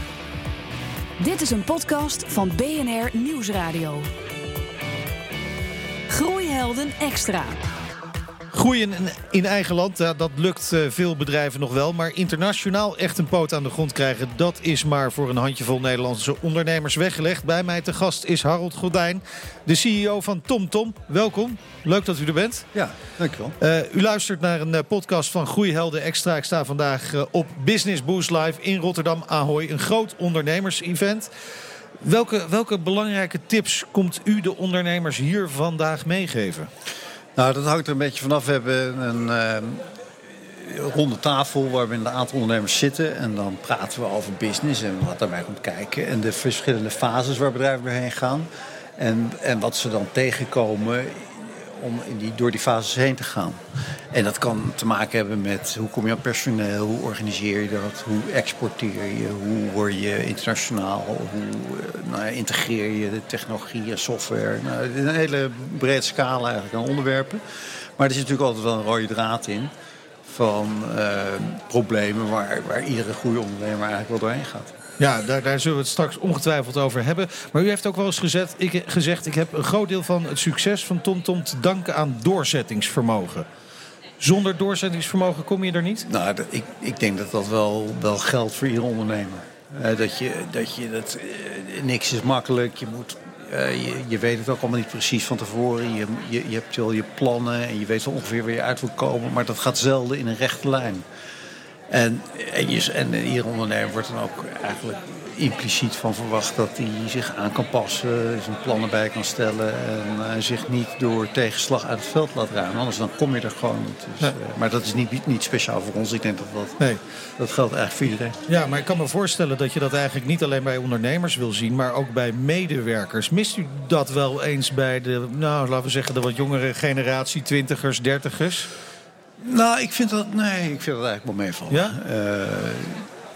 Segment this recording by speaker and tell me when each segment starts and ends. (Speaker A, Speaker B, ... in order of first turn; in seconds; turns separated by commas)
Speaker A: 1.2-4.1, Speaker A: 6.1-7.6, Speaker B: 8.5-22.7, Speaker C: 22.7-23.6, Speaker B: 23.6-31.3, Speaker B: 32.0-36.7, Speaker C: 37.4-39.8, Speaker C: 40.5-53.6, Speaker C: 54.1-67.4, Speaker C: 68.0-69.7, Speaker C: 70.3-74.7, Speaker B: 75.0-83.5, Speaker B: 84.2-86.1, Speaker C: 86.1-101.0, Speaker C: 101.9-116.8, Speaker C: 117.4-118.4, Speaker B: 118.5-128.7, Speaker C: 129.4-133.1, Speaker B: 131.7-132.0